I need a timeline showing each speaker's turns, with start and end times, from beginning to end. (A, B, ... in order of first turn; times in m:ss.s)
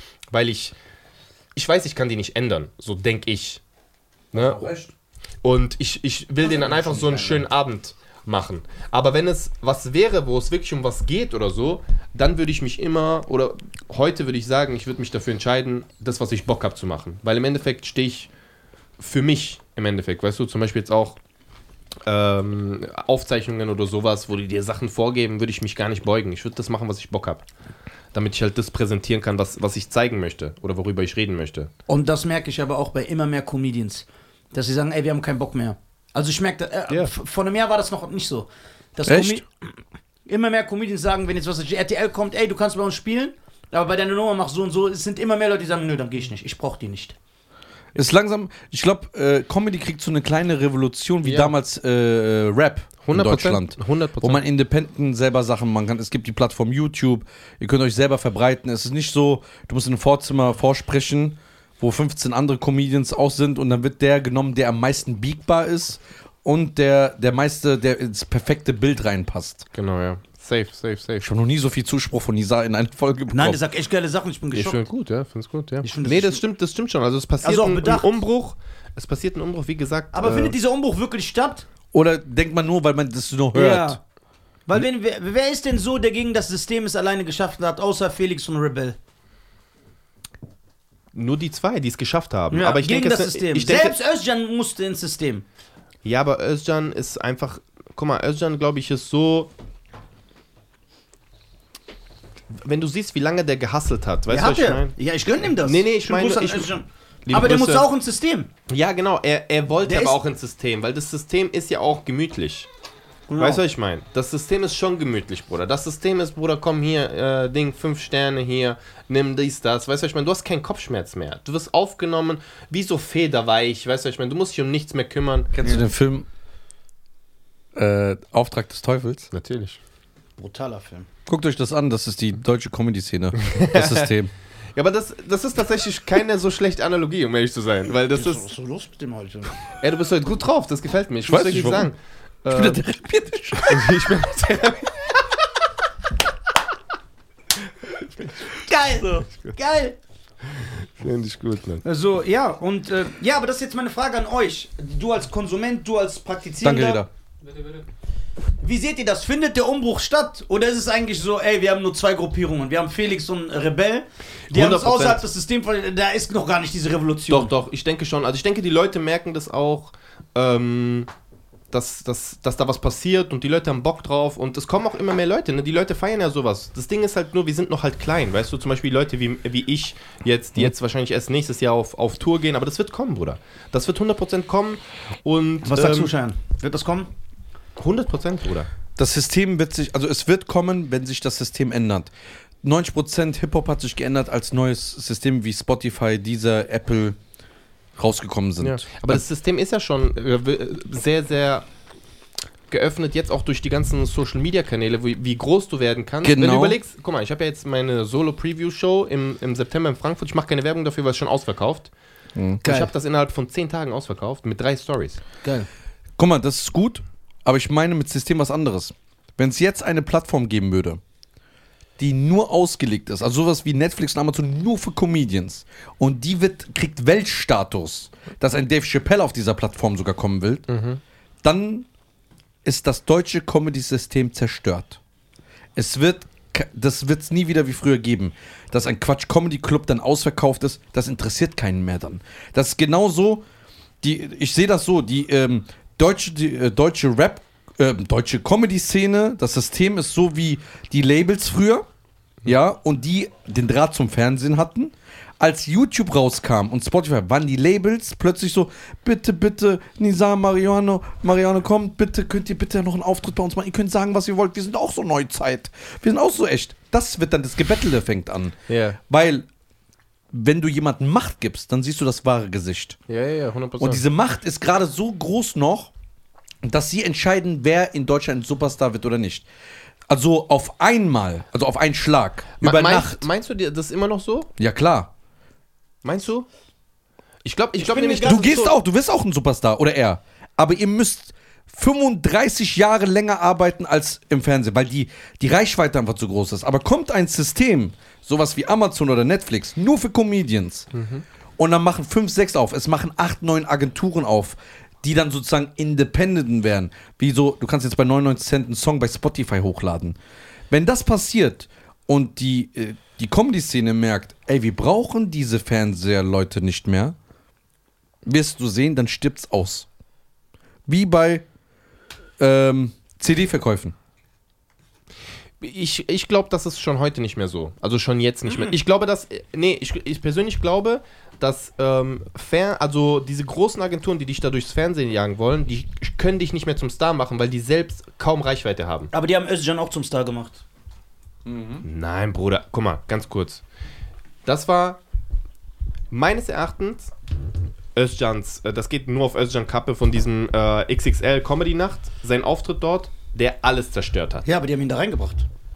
0:00.3-0:00.7 A
0:01.6-0:03.6 A
0:04.3-0:04.6 A
0:04.3-0:04.9 B
0:05.4-0:18.3 A
0:06.4-0:07.4 C
0:19.0-0:21.2 A
0:22.0-0:27.4 A
0:28.1-0:31.7 A
0:31.9-0:39.7 C
0:39.1-0:39.4 B
0:40.3-0:47.2 C
0:47.9-1:09.7 B
0:51.2-0:51.5 A
0:53.0-0:54.4 A
1:09.7-1:11.3 A
1:11.2-1:13.6 B
1:13.3-1:14.8 C
1:14.5-1:20.6 A
1:15.8-1:16.4 C
1:17.4-1:18.1 C
1:20.1-1:21.7 C
1:21.9-1:24.0 B
1:23.5-1:24.0 C
1:24.7-1:29.0 C
1:31.1-1:34.0 A
1:32.5-1:35.4 C
1:36.0-1:39.5 A
1:42.5-1:44.9 A
1:44.3-1:48.5 C
1:45.6-1:46.7 A
1:47.3-1:47.9 A
1:48.7-1:52.7 A
1:49.8-1:50.2 C
1:53.3-1:53.6 C
1:53.4-2:05.5 A
2:05.5-2:06.2 B
2:07.7-2:09.3 B
2:09.3-2:09.8 A
2:10.4-2:11.1 C
2:11.3-2:14.3 B
2:13.4-2:14.1 A
2:14.7-2:18.4 A
2:18.1-2:19.5 C
2:19.8-2:22.8 A
2:21.2-2:21.9 B
2:22.5-2:24.1 B
2:23.6-2:25.1 A
2:28.6-2:30.0 C
2:30.5-2:31.8 A
2:31.8-2:37.0 C
2:36.6-2:37.1 B
2:38.6-2:47.5 C
2:44.5-2:45.2 A
2:47.3-2:51.1 A
2:51.7-3:06.1 A
3:05.6-3:07.1 C
3:07.8-3:08.7 A
3:09.0-3:12.1 B
3:12.6-3:17.2 B
3:18.0-3:19.2 B
3:18.6-3:21.7 A
3:22.7-3:31.9 A
3:26.2-3:26.8 B
3:32.4-3:32.6 B
3:32.6-3:32.9 C
3:32.6-3:35.2 A
3:36.2-3:41.0 B
3:42.0-3:50.7 B
3:50.7-3:51.0 A
3:51.4-3:51.9 B
3:52.6-3:55.0 B
3:55.8-4:03.4 B
4:04.0-4:11.8 B
4:12.4-4:28.6 B
4:28.7-4:29.0 A
4:29.1-4:29.4 B
4:30.3-4:33.0 B
4:33.1-4:34.0 A
4:33.8-4:35.9 B
4:36.6-4:39.4 B
4:40.1-4:43.2 B
4:42.6-4:44.5 A
4:44.6-4:45.1 B
4:46.0-4:46.5 A
4:47.4-4:48.7 A
4:47.8-4:48.7 C
4:48.2-5:00.9 B
5:00.9-5:01.2 A
5:01.6-5:10.2 B
5:10.7-5:17.1 B
5:18.2-5:19.9 B
5:20.9-5:21.4 B
5:22.4-5:23.9 B
5:25.6-5:39.1 A
5:28.5-5:28.7 C
5:39.1-5:40.6 C
5:41.4-5:41.8 B
5:41.8-5:43.6 A
5:44.4-5:45.0 A
5:46.1-5:47.1 A
5:47.9-5:54.4 A
5:54.4-5:55.5 C